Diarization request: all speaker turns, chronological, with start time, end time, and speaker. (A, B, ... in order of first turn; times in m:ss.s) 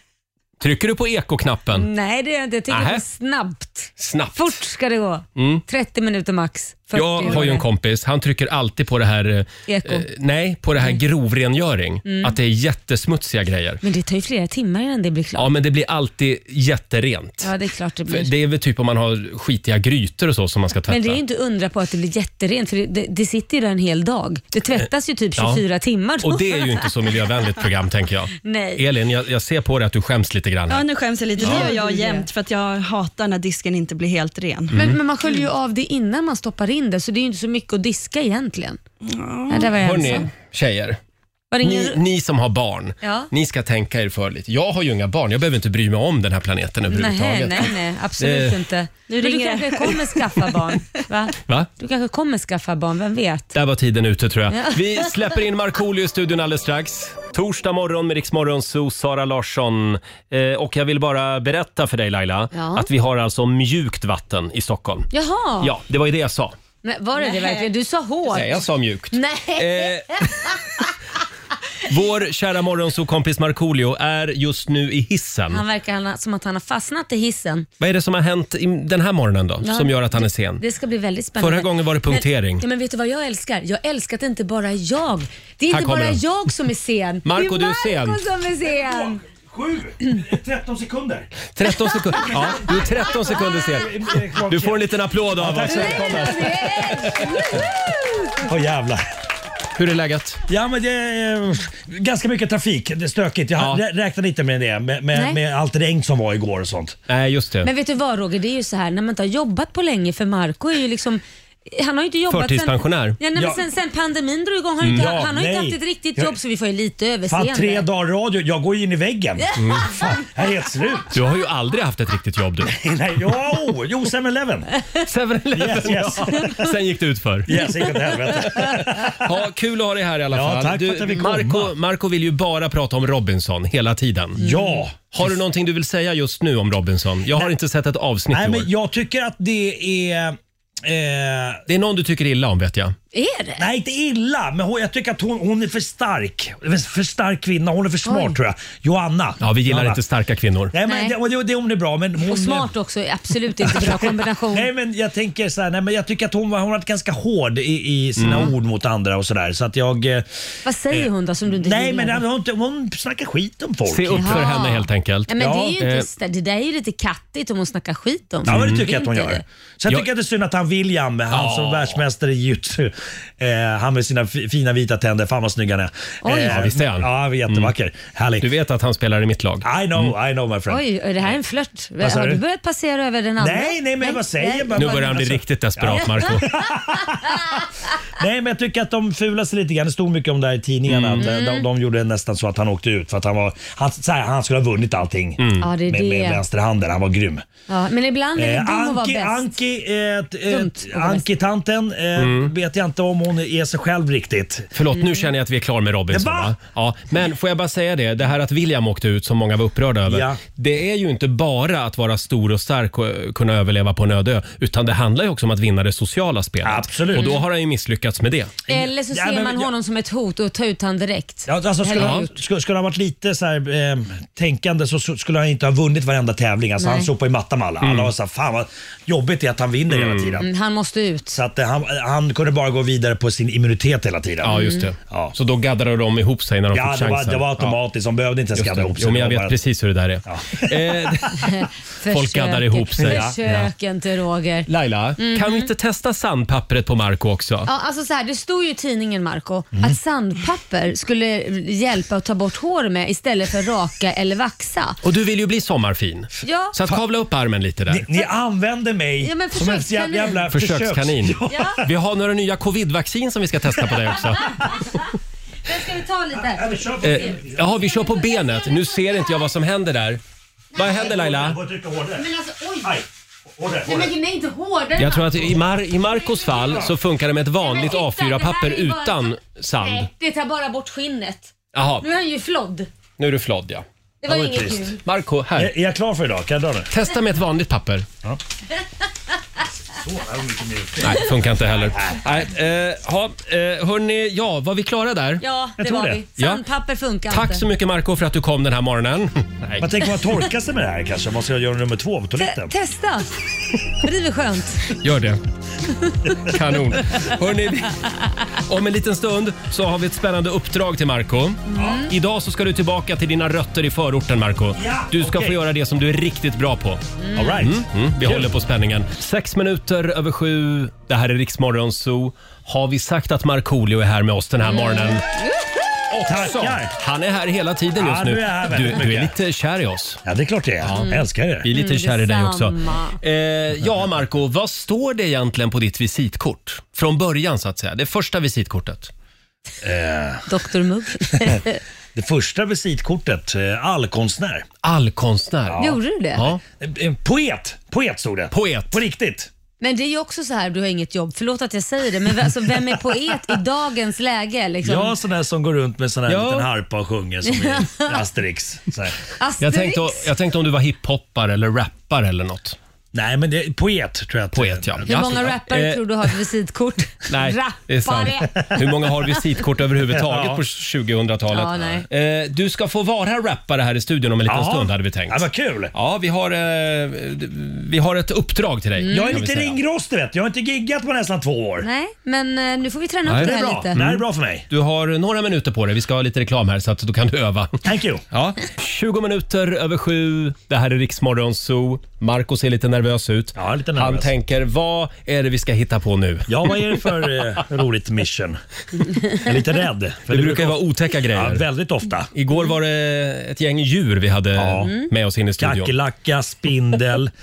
0:00.6-0:01.9 A
0:01.7-0:07.7 B
0:02.7-0:03.0 A
0:04.0-0:04.6 A
0:05.4-0:05.6 A
0:06.9-0:13.8 A
0:09.7-0:10.1 B
0:12.0-0:12.4 B
0:13.8-0:15.5 B
0:15.4-0:17.5 A
0:17.4-0:18.3 B
0:18.1-0:21.2 A
0:20.9-0:26.9 B
0:25.4-0:25.6 A
0:26.2-0:30.8 A
0:28.4-0:28.8 B
0:30.7-0:34.7 C
0:31.4-0:32.3 B
0:31.4-0:31.7 A
0:34.7-0:35.0 A
0:34.7-0:38.8 B
0:39.0-0:40.1 C
0:39.5-0:40.3 B
0:39.7-0:41.0 A
0:41.5-0:42.0 B
0:41.6-0:48.6 A
0:43.0-0:43.3 B
0:46.9-0:53.5 B
0:49.1-0:50.7 C
0:53.5-1:05.1 A
0:54.5-0:55.1 B
1:02.5-1:02.9 B
1:05.1-1:05.7 B
1:05.6-1:06.6 A
1:06.8-1:10.8 B
1:07.2-1:07.6 C
1:08.3-1:10.6 A
1:11.8-1:15.6 A
1:15.5-1:17.7 B
1:17.8-1:20.6 A
1:19.6-1:29.2 B
1:21.4-1:22.6 A
1:25.7-1:26.2 A
1:27.2-1:28.2 A
1:28.6-1:31.5 D
1:31.5-1:37.3 A
1:32.3-1:36.4 D
1:33.2-1:33.7 B
1:35.6-1:38.4 B
1:38.4-1:39.0 D
1:39.7-1:40.4 A
1:40.5-1:47.0 D
1:43.6-1:43.8 A
1:45.1-1:45.4 B
1:47.1-1:47.7 A
1:47.6-1:57.8 B
1:52.3-1:53.2 A
1:53.3-1:53.6 D
1:54.8-1:55.1 A
1:54.9-1:56.4 D
1:57.3-2:01.1 D
1:59.6-1:59.9 A
2:01.1-2:02.7 A
2:02.7-2:04.7 D
2:05.0-2:07.6 A
2:05.5-2:06.6 D
2:07.5-2:09.3 D
2:08.5-2:14.4 A
2:10.3-2:11.7 D
2:14.4-2:15.3 D
2:14.4-2:14.8 B
2:15.1-2:18.7 A
2:18.3-2:21.6 D
2:21.7-2:22.9 A
2:23.1-2:23.6 B
2:23.6-2:30.0 D
2:28.0-2:28.4 B
2:29.4-2:30.7 A
2:30.7-2:32.7 D
2:30.8-2:31.2 B
2:32.2-2:34.7 B
2:33.6-2:40.2 D
2:38.2-2:38.5 A
2:40.6-2:42.2 B
2:41.6-2:44.5 D
2:43.8-2:46.1 A
2:44.1-2:49.4 B
2:45.4-2:45.7 D
2:48.4-2:58.5 D
2:48.4-2:48.8 A
2:51.3-2:52.0 A
2:56.2-2:56.5 B
2:56.3-2:57.7 A
2:58.4-3:00.1 A
2:59.6-3:00.8 D
3:00.7-3:05.2 B
3:02.0-3:02.4 D
3:03.4-3:07.6 D
3:04.7-3:06.5 A
3:05.9-3:06.4 B
3:08.2-3:17.4 D
3:10.9-3:11.2 A
3:11.2-3:11.6 B
3:15.4-3:15.6 A
3:15.6-3:16.4 B
3:17.7-3:19.5 B
3:18.4-3:24.7 D
3:20.5-3:21.2 B
3:22.2-3:22.5 A
3:24.7-3:38.6 A
3:25.0-3:25.2 B
3:26.1-3:26.5 D
3:30.1-3:30.4 D
3:36.6-3:37.4 D
3:38.7-3:42.4 B
3:38.7-3:39.7 D
3:41.4-3:50.5 D
3:42.0-3:42.2 A
3:46.8-3:47.1 B
3:47.8-3:48.1 A
3:49.9-3:50.4 A
3:50.4-3:51.4 B
3:51.3-3:55.3 D
3:54.4-3:57.8 A
3:54.5-3:54.8 B
3:56.7-3:59.5 D
3:58.5-4:01.4 A
4:00.2-4:01.4 D
4:01.4-4:05.7 B
4:02.0-4:03.7 A
4:03.0-4:03.3 D
4:04.7-4:07.7 A
4:07.6-4:15.0 B
4:15.0-4:18.1 A
4:16.4-4:16.7 B
4:17.9-4:21.8 D
4:19.2-4:20.4 B
4:20.5-4:24.6 A
4:21.5-4:21.8 B
4:25.6-4:27.4 B
4:26.4-4:27.8 D
4:27.0-4:30.2 A
4:28.3-4:28.8 B
4:30.7-4:31.1 B
4:30.7-4:31.6 A
4:31.0-4:32.3 D
4:32.2-4:33.0 B
4:32.8-4:34.1 D
4:33.8-4:35.6 B
4:35.0-4:40.1 A
4:36.1-4:36.7 B
4:37.6-4:42.9 B
4:41.7-4:42.1 A
4:43.2-4:43.8 A
4:44.2-4:45.0 B
4:44.3-4:45.0 D
4:45.0-4:45.7 A
4:45.6-4:46.9 D
4:46.9-4:48.1 A
4:49.9-4:52.2 D
4:51.0-4:55.4 A
4:55.4-4:57.6 B
4:55.8-4:56.2 D
4:56.4-4:56.6 A
4:57.3-4:59.9 A
4:59.8-5:02.7 D
5:02.4-5:05.0 B
5:05.0-5:05.4 A
5:06.5-5:17.0 A
5:11.7-5:12.1 B
5:14.8-5:15.6 D
5:17.2-5:17.6 B
5:17.4-5:18.5 D
5:17.6-5:25.2 A
5:24.6-5:25.7 B
5:26.1-5:30.2 A
5:26.2-5:26.9 D
5:28.0-5:29.3 D
5:30.2-5:31.7 D
5:30.8-5:31.1 A
5:30.9-5:33.2 B
5:31.6-5:39.1 A
5:39.8-5:40.5 D
5:40.5-5:41.8 B
5:42.1-5:44.7 D
5:44.8-5:46.6 A
5:45.7-5:46.0 D
5:45.8-5:46.4 B
5:46.8-5:49.5 D
5:48.5-5:49.0 A
5:49.8-5:55.2 B
5:54.8-5:59.2 D
5:56.3-5:56.6 A
5:57.4-5:58.2 B
5:59.4-6:00.3 B
5:59.6-6:02.8 A
6:03.1-6:05.5 D
6:04.5-6:06.0 A
6:05.1-6:08.8 B
6:07.3-6:19.8 A
6:10.1-6:10.6 D
6:11.5-6:12.0 B
6:14.4-6:15.9 D
6:19.0-6:19.4 B
6:19.1-6:21.9 D
6:21.8-6:24.0 B
6:23.3-6:37.2 A
6:23.3-6:24.6 D
6:27.8-6:28.2 D
6:33.6-6:34.3 D
6:36.5-6:38.6 D
6:39.3-6:40.8 D
6:40.3-6:41.6 A
6:41.3-6:42.3 D
6:42.3-6:45.9 A
6:44.6-6:44.9 D
6:44.8-6:45.1 B
6:45.6-6:47.3 D